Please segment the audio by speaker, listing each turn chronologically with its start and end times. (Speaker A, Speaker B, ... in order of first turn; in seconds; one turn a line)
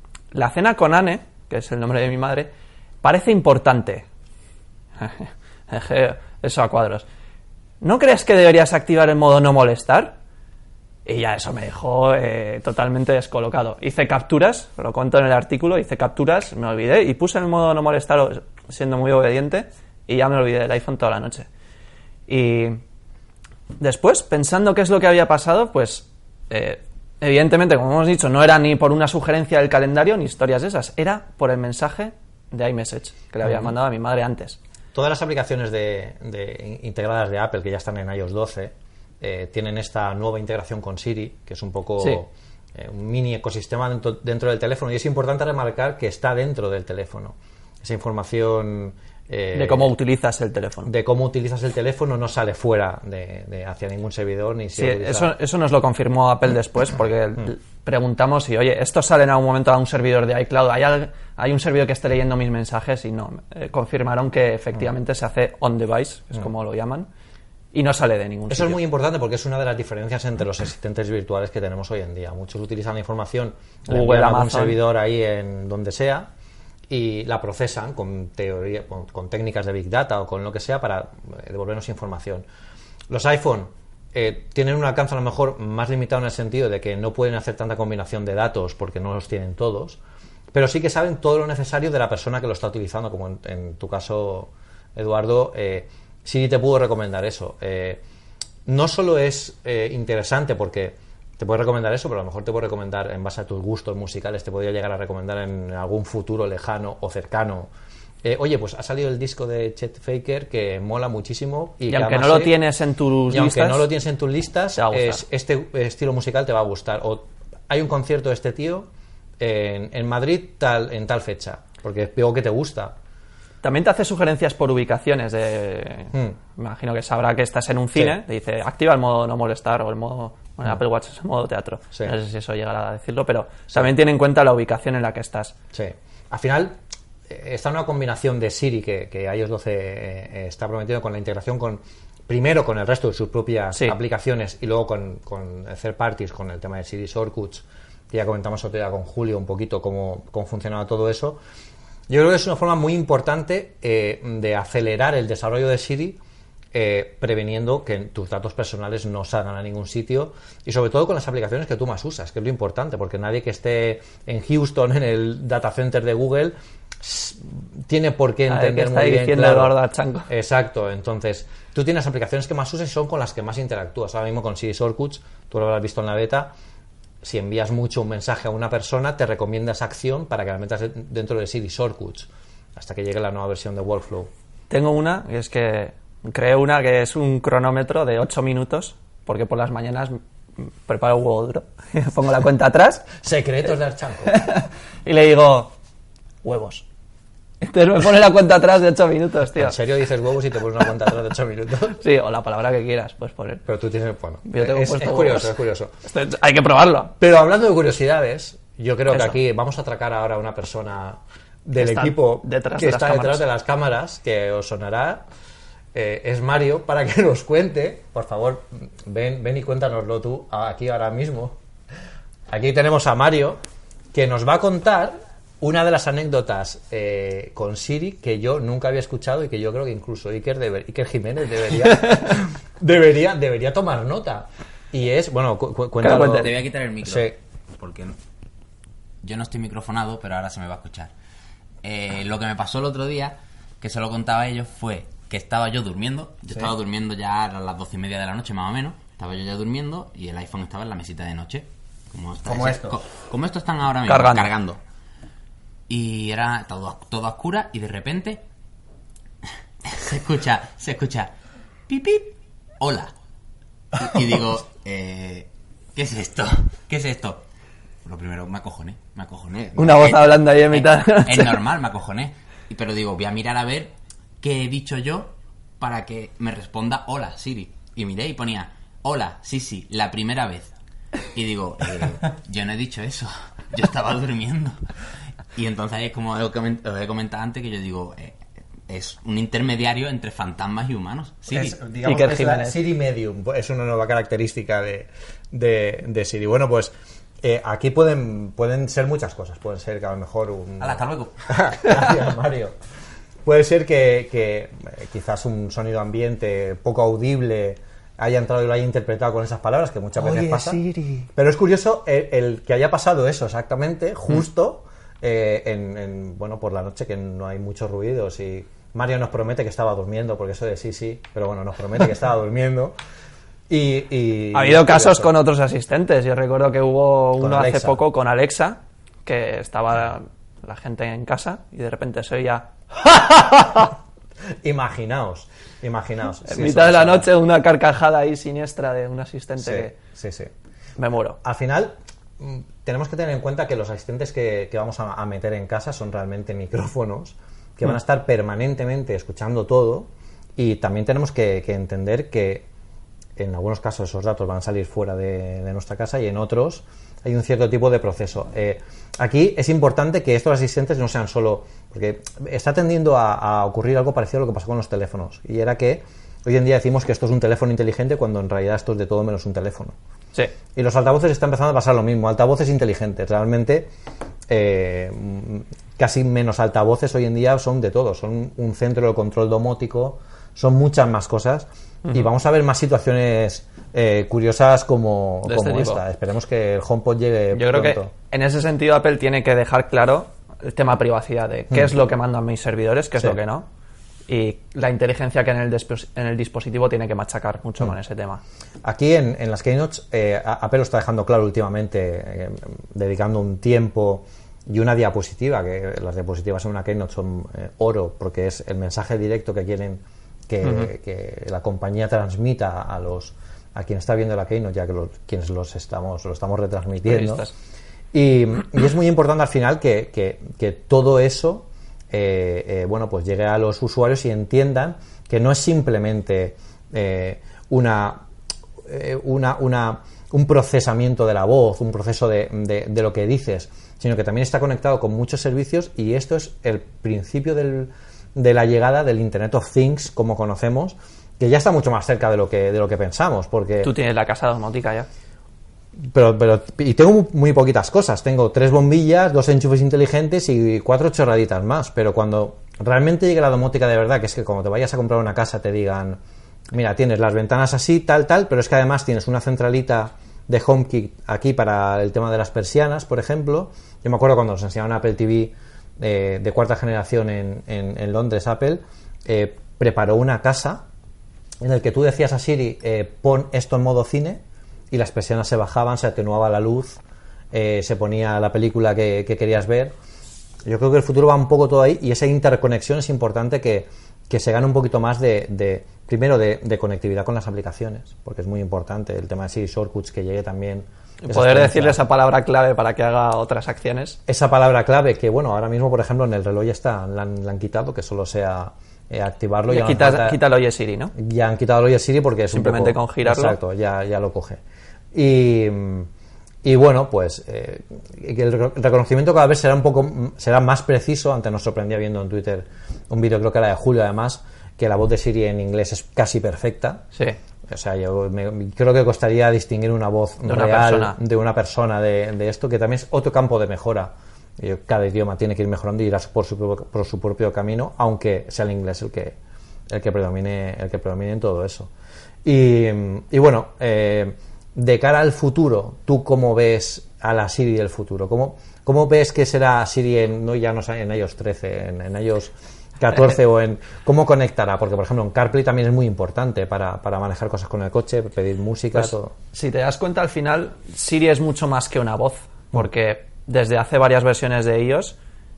Speaker A: 0.3-2.5
Speaker A: 3.0-4.0
Speaker A: 5.0-7.0
Speaker A: 7.8-10.2
Speaker A: 11.1-21.5
Speaker A: 22.3-22.8
Speaker A: 23.8-34.6
Speaker B: 33.4-33.7
Speaker B: 34.9-49.9
Speaker A: 49.5-50.9
Speaker B: 50.8-55.3
Speaker A: 54.7-67.1
Speaker A: 67.7-68.8
Speaker B: 68.5-76.3
Speaker A: 73.9-74.8
Speaker B: 76.9-82.4
Speaker B: 83.1-90.0
Speaker B: 90.5-98.0
Speaker B: 98.7-107.7
Speaker B: 108.2-112.5
Speaker A: 111.9-113.9
Speaker B: 113.3-118.8
Speaker A: 114.8-115.2
Speaker B: 119.4-122.9
Speaker A: 123.6-135.5
Speaker B: 135.7-136.8
Speaker B: 137.3-151.4
Speaker B: 152.1-156.2
Speaker B: 156.7-169.7
Speaker A: 168.5-170.3
Speaker B: 170.3-176.5
Speaker B: 177.2-184.3
Speaker A: 184.7-193.1
Speaker B: 193.2-194.3
Speaker A: 194.2-195.7
Speaker A: 196.4-196.8
Speaker A: 197.6-199.8
Speaker B: 199.5-202.0
Speaker A: 201.9-203.6
Speaker B: 203.7-205.9
Speaker A: 204.5-207.1
Speaker B: 207.2-215.2
Speaker A: 209.1-209.4
Speaker A: 211.8-213.4
Speaker B: 215.9-221.5
Speaker B: 222.5-223.6
Speaker B: 224.1-237.3
Speaker A: 236.0-236.5
Speaker C: 236.0-238.2
Speaker C: 239.2-241.1
Speaker C: 241.8-254.8
Speaker B: 252.4-253.0
Speaker A: 254.0-254.5
Speaker C: 255.9-258.4
Speaker C: 259.9-261.3
Speaker C: 261.9-263.1
Speaker C: 263.9-267.4
Speaker C: 268.0-280.7
Speaker A: 269.8-271.6
Speaker C: 281.3-284.8
Speaker C: 285.5-288.4
Speaker C: 288.9-291.7
Speaker B: 291.5-302.7
Speaker A: 292.0-292.8
Speaker C: 300.8-301.4
Speaker B: 303.4-322.9
Speaker A: 310.2-311.2
Speaker B: 323.7-325.3
Speaker A: 324.5-332.7
Speaker B: 327.4-328.0
Speaker B: 333.2-333.9
Speaker B: 334.6-337.3
Speaker A: 336.5-339.9
Speaker B: 339.6-340.5
Speaker A: 341.0-341.4
Speaker B: 341.4-352.6
Speaker B: 353.4-369.9
Speaker B: 370.7-373.9
Speaker B: 374.5-388.1
Speaker A: 385.4-386.0
Speaker A: 387.5-393.6
Speaker A: 394.3-398.4
Speaker B: 398.8-417.5
Speaker A: 410.6-410.9
Speaker A: 417.0-417.5
Speaker B: 418.1-428.2
Speaker B: 428.8-443.9
Speaker A: 443.8-445.1
Speaker B: 446.1-456.2
Speaker B: 456.7-470.8
Speaker B: 471.6-474.4
Speaker B: 474.9-477.0
Speaker B: 477.5-479.9
Speaker B: 480.6-492.0
Speaker A: 491.2-494.2
Speaker B: 494.3-500.4
Speaker A: 499.7-501.1
Speaker B: 501.1-504.6
Speaker A: 502.5-503.6
Speaker B: 505.1-506.1
Speaker B: 506.6-517.1
Speaker B: 517.7-529.3
Speaker A: 520.4-521.1
Speaker B: 529.9-531.9
Speaker B: 532.4-549.3
Speaker A: 548.9-555.1